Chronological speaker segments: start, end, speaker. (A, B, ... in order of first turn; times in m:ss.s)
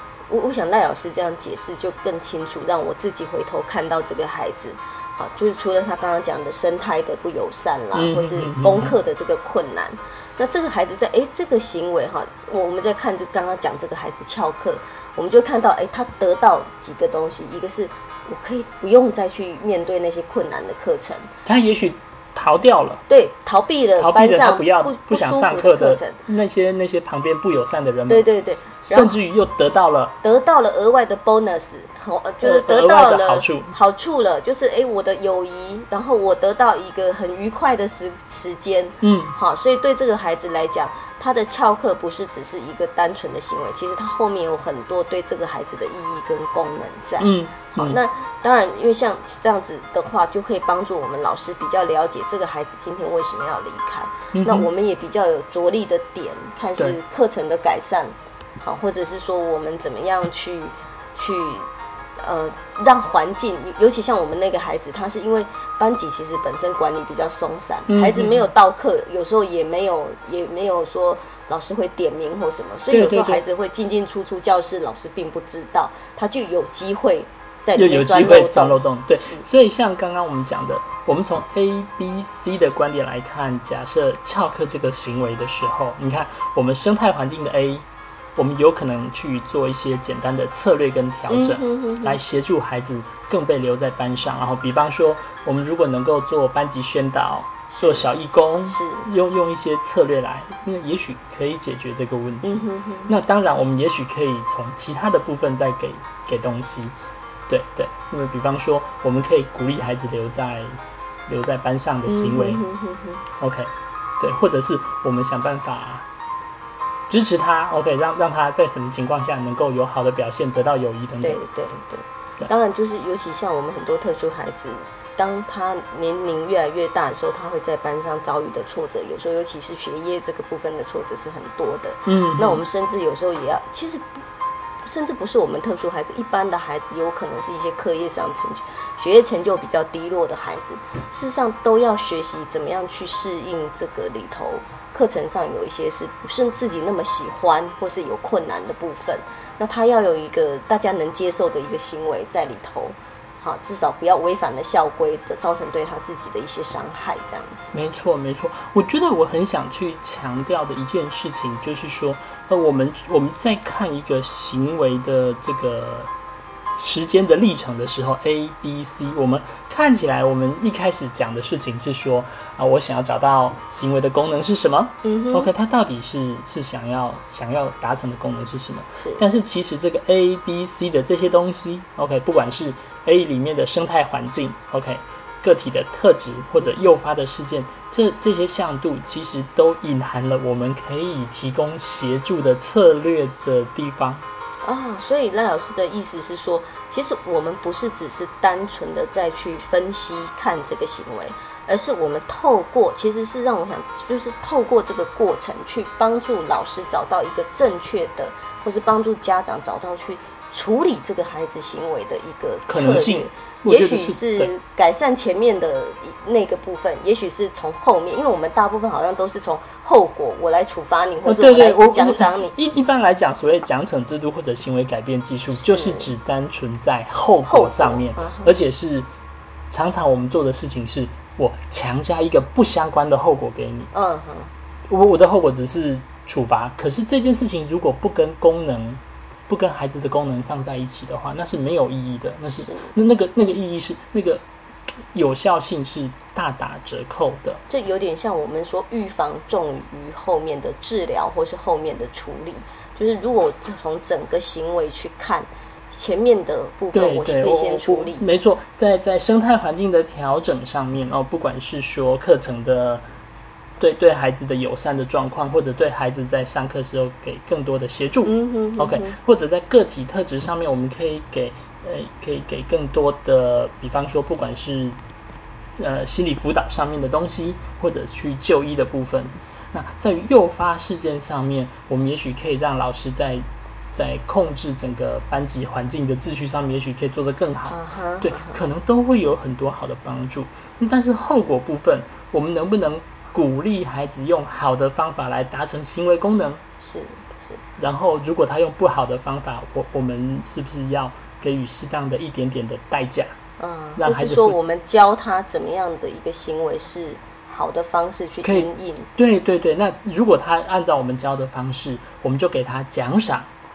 0:00.3-0:21.3 A
0:07.9-0:09.0 B
0:21.4-0:23.0 B
0:23.1-0:26.2 A
0:24.0-0:28.3 B
0:28.1-0:29.2 A
0:28.9-0:30.2 B
0:30.2-1:01.7 A
0:32.4-0:33.7 B
0:39.0-0:39.3 B
0:47.2-0:48.0 B
0:54.3-0:54.7 B
1:02.2-1:19.4 A
1:07.9-1:08.5 B
1:12.9-1:13.4 B
1:17.8-1:27.8 B
1:28.4-1:47.0 B
1:31.3-1:32.2 A
1:37.7-1:38.1 A
1:38.7-1:39.1 A
1:42.4-1:43.1 A
1:47.5-1:52.6 B
1:52.1-1:53.2 A
1:53.4-1:56.1 B
1:57.1-2:01.4 B
2:01.2-2:14.2 A
2:12.1-2:12.6 B
2:14.8-2:37.7 A
2:37.7-2:46.1 B
2:46.8-3:14.2 B
2:55.0-2:55.5 A
2:59.0-2:59.2 A
3:06.6-3:06.9 A
3:14.6-3:42.6 A
3:32.7-3:34.5 B
3:41.3-3:49.1 B
3:45.6-3:46.1 A
3:47.4-3:48.6 A
3:49.7-3:53.9 B
3:53.9-3:54.5 A
3:54.9-4:04.4 B
4:02.5-4:02.9 A
4:05.1-4:07.6 B
4:07.7-4:18.2 A
4:16.9-4:23.0 B
4:23.8-4:35.0 B
4:28.2-4:29.2 A
4:35.8-4:56.6 B
4:47.7-4:48.6 A
4:56.8-4:57.6 A
4:57.8-5:03.4 B
5:03.6-5:09.1 A
5:04.0-5:04.6 B
5:08.4-5:13.5 B